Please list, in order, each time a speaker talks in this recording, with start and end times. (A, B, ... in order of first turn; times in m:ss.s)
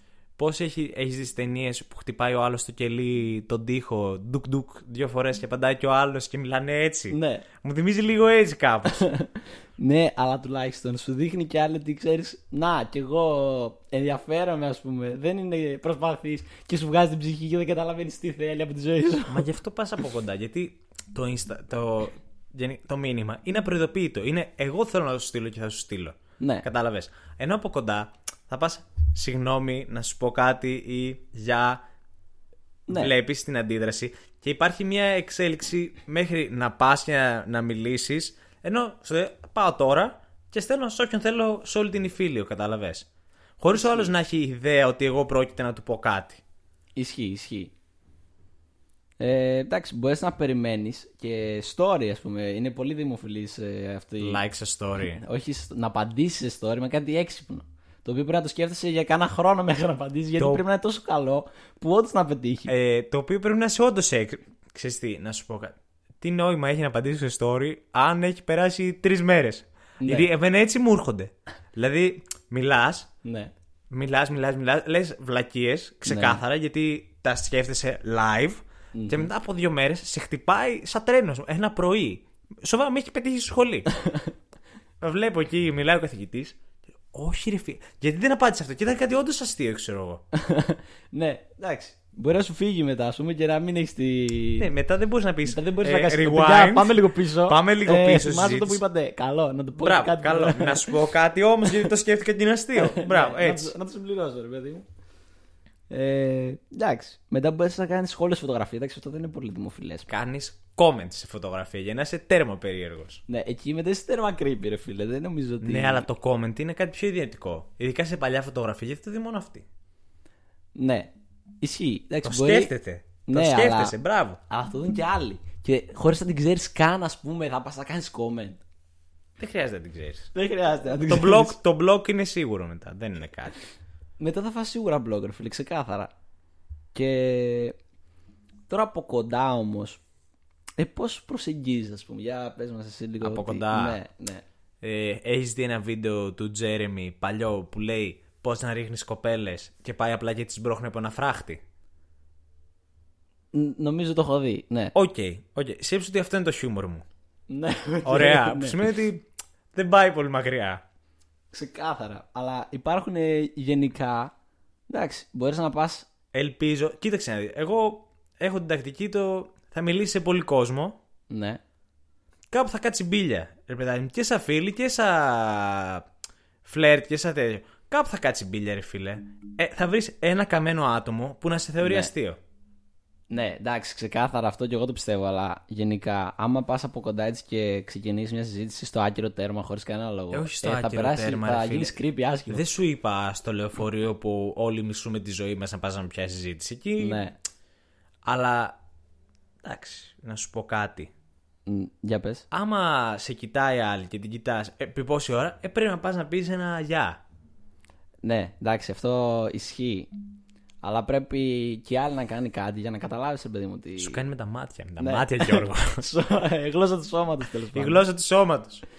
0:00.4-0:09.1 A
0:07.1-0:07.4 B
0:09.0-0:19.4 B
0:19.3-0:31.8 A
0:26.4-0:26.6 B
0:32.9-0:46.4 A
0:43.7-0:44.1 B
0:47.0-0:47.7 B
0:49.2-0:54.4 B
0:54.2-0:55.2 A
0:55.0-1:02.7 B
1:00.4-1:00.6 A
1:02.7-1:13.1 A
1:10.0-1:10.3 B
1:13.2-1:13.5 B
1:13.9-1:23.9 A
1:16.1-1:16.4 B
1:18.9-1:19.3 B
1:24.0-1:24.3 B
1:25.0-1:26.6 A
1:27.1-1:30.2 A
1:30.3-1:34.7 B
1:34.6-1:38.8 A
1:35.4-1:40.9 B
1:39.8-1:43.7 A
1:42.8-1:44.8 B
1:45.9-1:50.1 B
1:50.1-1:53.2 A
1:53.3-1:56.1 B
1:55.6-1:59.6 A
2:00.8-2:02.7 B
2:02.2-2:04.4 A
2:03.2-2:03.9 B
2:04.5-2:08.6 B
2:09.4-2:10.3 A
2:10.3-2:11.6 B
2:11.0-2:13.6 A
2:14.2-2:16.1 B
2:16.9-2:17.8 B
2:18.7-2:20.0 B
2:20.8-2:24.4 B
2:23.2-2:24.0 A
2:24.8-2:31.6 A
2:33.5-2:34.9 B
2:34.9-2:37.0 A
2:37.5-2:38.8 B
2:38.0-2:40.8 A
2:41.5-2:44.3 B
2:44.9-2:46.1 B
2:46.3-2:51.0 A
2:51.3-2:51.6 B
2:52.5-2:56.0 A
2:56.6-3:02.4 A
3:01.8-3:02.1 B
3:03.3-3:12.6 B
3:10.3-3:17.2 A
3:17.0-3:17.3 B
3:18.2-3:18.8 A
3:19.6-3:21.1 A
3:21.7-3:22.4 B
3:22.5-3:27.2 A
3:28.2-3:30.1 B
3:30.8-3:34.2 B
3:34.0-3:36.0 A
3:35.0-3:38.0 B
3:37.7-3:38.8 A